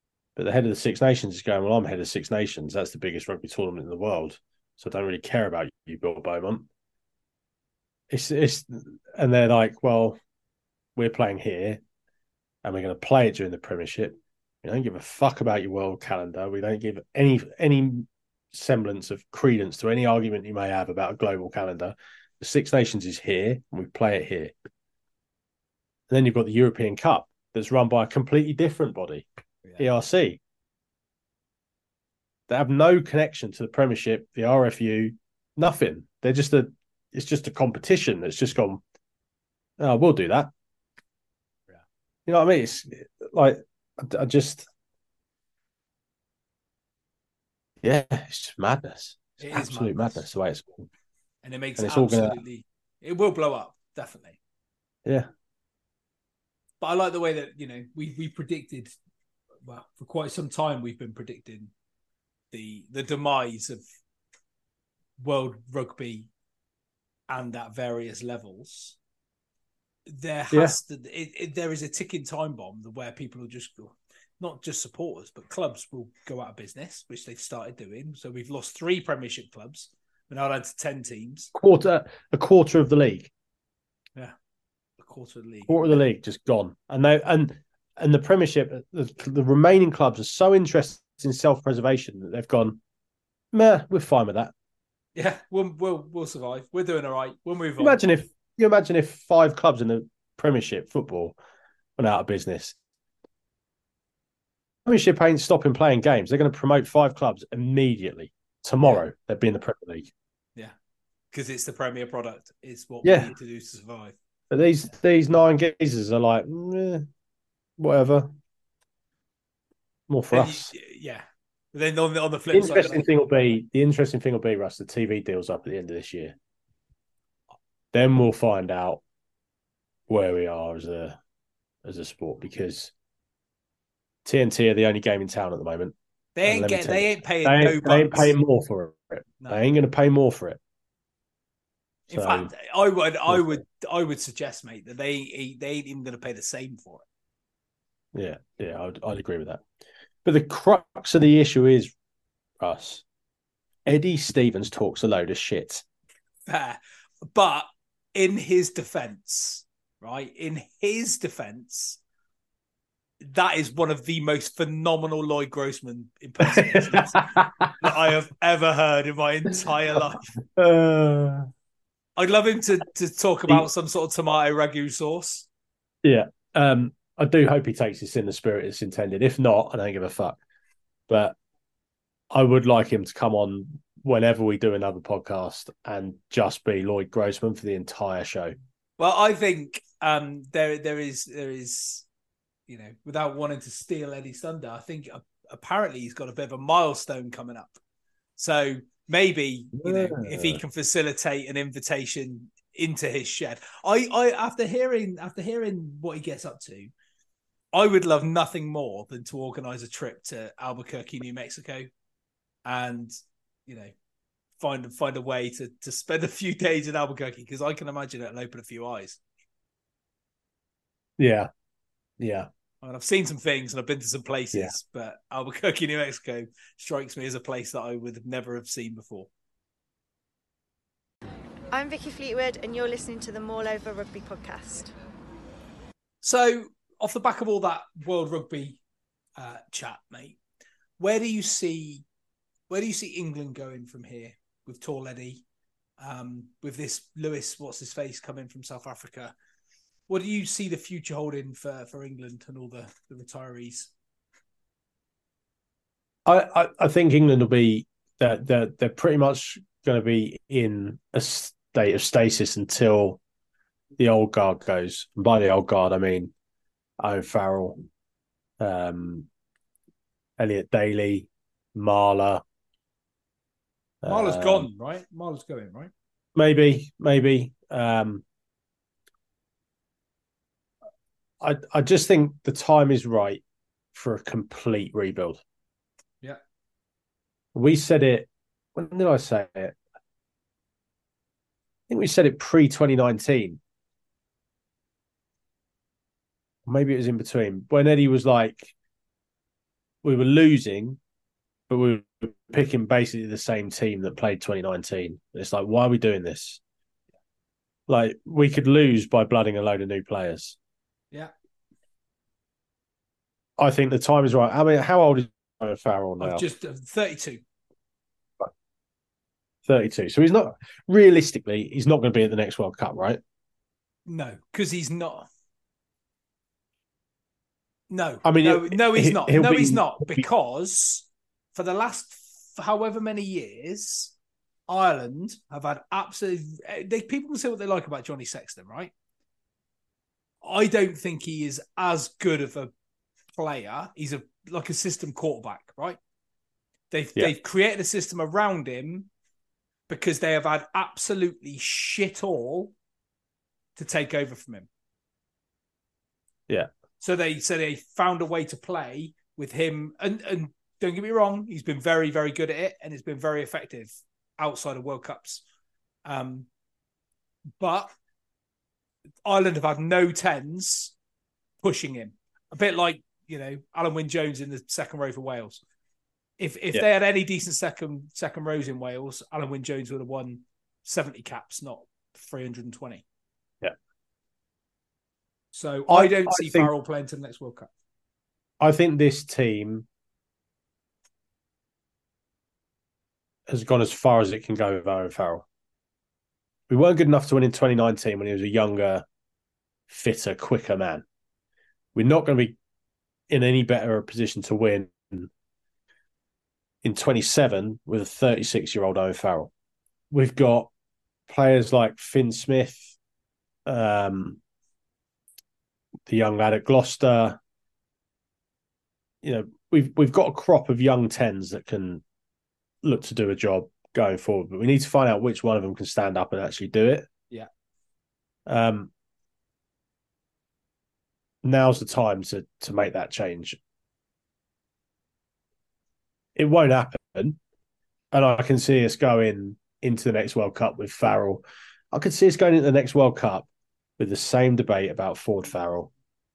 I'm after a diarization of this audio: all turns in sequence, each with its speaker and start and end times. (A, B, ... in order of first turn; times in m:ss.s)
0:00.4-0:06.7 A
0:08.1-0:10.2 A
0:11.0-0:11.8 A
0:12.6-0:24.5 A
0:26.1-0:29.3 A
0:29.8-0:30.4 A
0:32.5-0:38.8 A
0:39.8-0:40.5 A
0:42.2-0:44.7 A
0:47.8-0:50.9 A
0:49.4-0:50.2 B
0:51.4-0:54.4 B
0:51.8-0:52.4 A
0:56.8-0:58.9 B
0:59.6-1:01.7 B
1:02.5-1:03.8 B
1:05.2-1:06.3 B
1:07.3-1:09.0 B
1:10.1-1:21.5 B
1:10.5-1:10.8 A
1:21.5-1:23.3 A
1:25.0-1:25.9 B
1:25.7-1:32.8 A
1:33.5-1:34.5 A
1:35.2-1:38.0 B
1:37.8-1:41.4 A
1:42.0-1:42.8 A
1:44.8-1:50.1 A
1:51.3-1:54.2 B
1:53.0-1:53.3 A
1:54.5-1:57.1 A
1:57.8-1:58.3 A
2:00.1-2:00.7 A
2:00.3-2:03.1 B
2:02.5-2:06.4 A
2:07.9-2:09.0 A
2:10.1-2:11.2 A
2:11.8-2:12.9 A
2:14.2-2:20.6 A
2:16.4-2:18.3 B
2:22.1-2:27.0 B
2:22.1-2:22.5 A
2:23.3-2:23.6 A
2:28.1-2:29.6 A
2:30.2-2:31.9 A
2:32.6-2:33.0 A
2:33.8-2:35.8 A
2:36.5-2:42.0 B
2:43.2-2:50.2 B
2:46.5-2:47.7 A
2:50.6-2:51.5 A
2:52.2-2:55.5 B
2:56.0-3:00.4 A
3:01.1-3:01.4 A
3:02.3-3:08.6 A
3:09.0-3:12.0 B
3:12.7-3:17.8 B
3:18.4-3:26.9 B
3:19.7-3:20.6 A
3:27.7-3:31.9 B
3:32.6-3:33.1 B
3:33.7-3:33.9 B
3:34.6-3:39.2 B
3:41.2-3:41.5 A
3:42.2-3:42.5 A
3:42.8-3:49.3 B
3:51.7-3:54.9 C
3:56.2-3:58.8 B
3:59.4-4:00.4 B
4:01.0-4:02.0 B
4:02.7-4:05.4 B
4:06.0-4:09.3 B
4:10.1-4:13.9 B
4:16.2-4:23.2 A
4:24.0-4:26.3 A
4:27.0-4:27.8 A
4:28.6-4:29.3 A
4:30.4-4:32.4 A
4:34.0-4:34.7 A
4:34.0-4:35.9 B
4:36.3-4:38.2 A
4:41.4-4:43.4 A
4:43.9-4:45.4 A
4:47.5-4:49.8 A
4:51.9-4:53.6 A
4:56.6-4:58.7 A
5:00.0-5:01.0 A
5:01.7-5:06.6 A
5:07.9-5:10.6 A
5:13.6-5:16.4 A
5:16.2-5:17.4 B
5:19.6-5:23.2 A
5:24.1-5:25.3 B
5:27.9-5:34.1 B
5:28.2-5:30.3 A
5:34.7-5:38.9 B
5:40.4-5:42.7 B
5:43.3-5:46.0 B
5:46.9-5:49.1 B
5:49.9-5:52.7 B
5:53.8-5:54.7 B
5:57.0-6:05.4 B
6:06.0-6:06.5 B
6:07.6-6:07.9 B
6:09.2-6:10.9 B
6:11.6-6:15.6 B
6:16.4-6:23.0 B
6:25.5-6:27.7 B
6:25.9-6:26.7 A
6:28.6-6:29.8 A
6:33.5-6:35.4 A
6:36.7-6:39.0 A
6:39.9-6:41.0 A
6:41.9-6:42.6 A
6:43.3-6:45.3 A
6:46.8-6:49.5 A
6:50.1-6:50.7 A
6:51.3-6:52.9 A
6:53.6-6:54.4 A
6:56.1-6:57.4 A
6:59.2-7:02.0 A
7:02.8-7:07.1 A
7:08.4-7:08.9 A
7:11.4-7:13.6 A
7:16.4-7:17.4 A
7:18.1-7:25.9 A